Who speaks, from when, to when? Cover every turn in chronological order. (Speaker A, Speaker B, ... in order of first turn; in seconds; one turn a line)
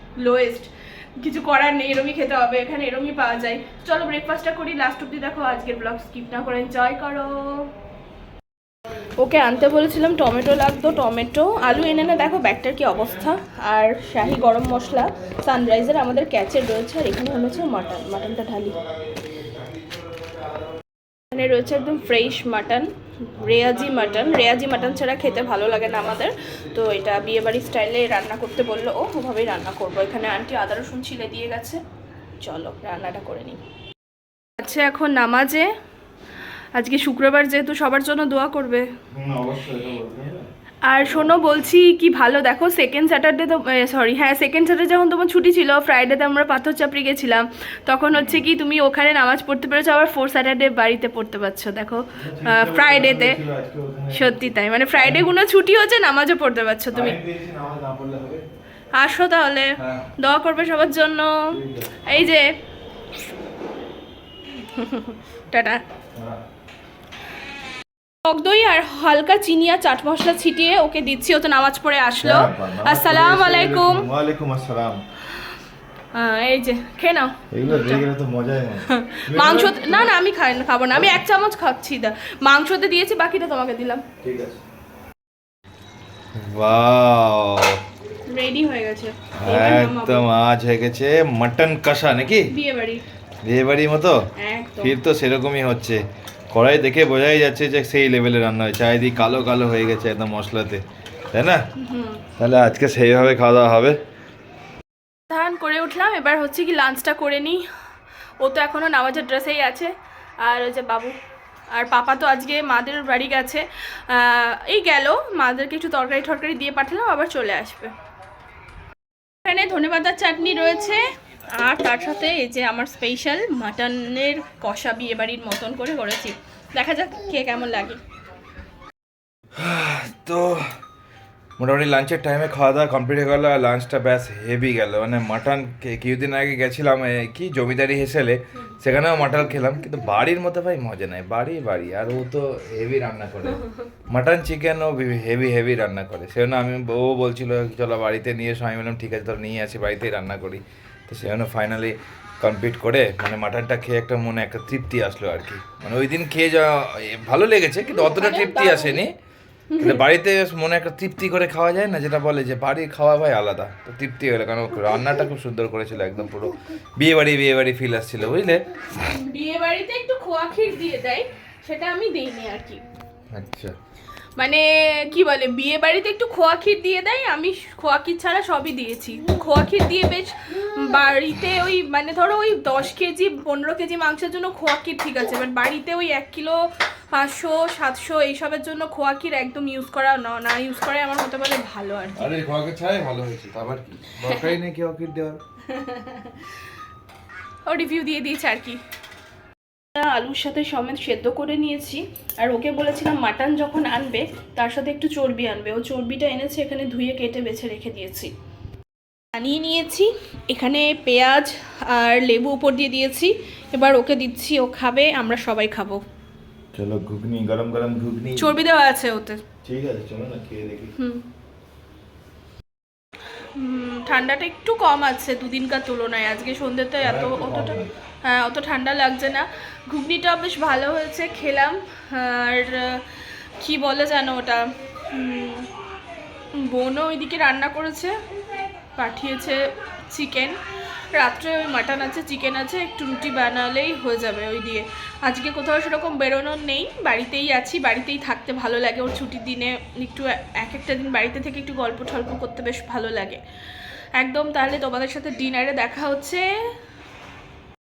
Speaker A: 0.2-7.7
Speaker A: 9.2-18.8
Speaker A: 21.3-31.8
Speaker A: 32.4-33.6
Speaker A: 34.6-35.7
Speaker A: 36.8-38.9
Speaker B: 39.1-40.5
Speaker A: 40.9-53.4
Speaker B: 41.0-41.4
Speaker B: 48.1-48.5
Speaker B: 52.1-55.3
Speaker A: 54.1-57.2
Speaker B: 56.9-58.5
Speaker A: 58.9-62.5
Speaker B: 59.8-60.1
Speaker B: 61.5-62.0
Speaker A: 64.5-65.8
Speaker A: 68.2-74.0
Speaker B: 72.2-75.0
Speaker A: 76.1-78.1
Speaker B: 77.5-80.1
Speaker A: 78.8-84.0
Speaker B: 80.9-81.2
Speaker B: 84.2-84.6
Speaker B: 86.3-87.8
Speaker A: 88.3-90.3
Speaker B: 89.4-92.5
Speaker A: 92.5-93.0
Speaker B: 93.5-94.2
Speaker A: 94.4-95.0
Speaker B: 94.8-96.0
Speaker B: 96.5-100.8
Speaker B: 101.3-101.6
Speaker A: 101.8-102.2
Speaker B: 102.4-104.0
Speaker A: 105.3-107.6
Speaker A: 108.4-111.2
Speaker A: 111.7-117.9
Speaker A: 119.5-128.0
Speaker B: 129.6-130.7
Speaker B: 131.6-159.2
Speaker A: 157.8-159.0
Speaker A: 159.7-160.0
Speaker B: 159.8-168.7
Speaker A: 169.0-172.8
Speaker B: 173.3-173.8
Speaker A: 174.4-192.3
Speaker B: 192.2-195.4
Speaker A: 194.2-194.5
Speaker A: 195.7-196.3
Speaker A: 197.7-198.8
Speaker A: 199.9-208.3
Speaker A: 209.3-216.0
Speaker B: 216.8-218.6
Speaker A: 218.4-219.4
Speaker B: 219.6-220.9
Speaker A: 221.0-221.2
Speaker A: 223.6-235.7
Speaker B: 227.0-227.9
Speaker A: 236.5-238.2
Speaker A: 239.0-240.6
Speaker A: 241.1-253.4
Speaker A: 254.2-256.5